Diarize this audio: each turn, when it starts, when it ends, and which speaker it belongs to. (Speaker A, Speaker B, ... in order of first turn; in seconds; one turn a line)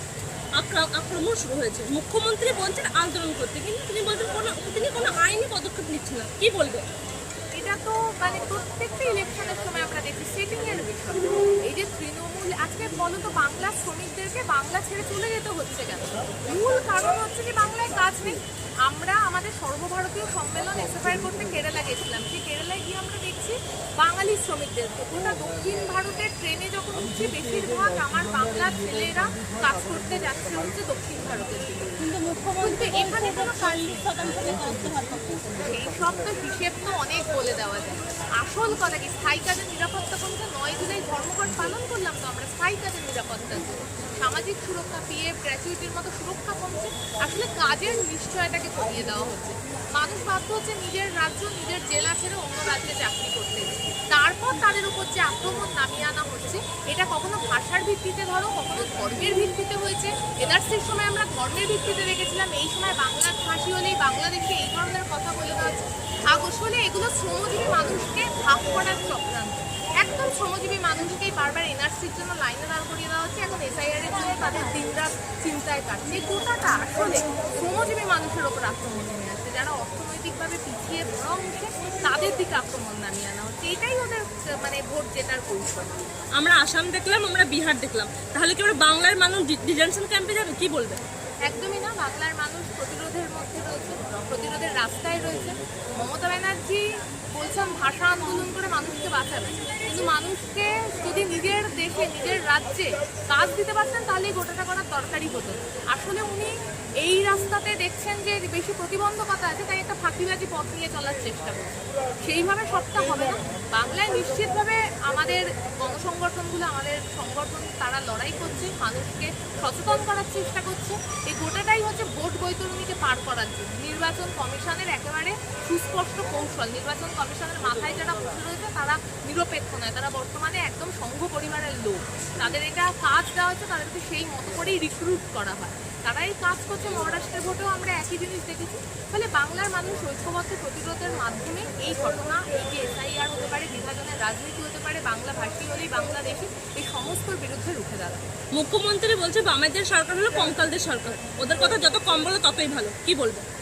Speaker A: 0.6-6.8
Speaker B: 7.6-32.0
Speaker C: 32.0-35.8
Speaker B: 32.6-33.8
Speaker B: 35.6-86.1
Speaker A: 86.4-91.0
Speaker B: 91.5-148.3
Speaker A: 148.5-153.4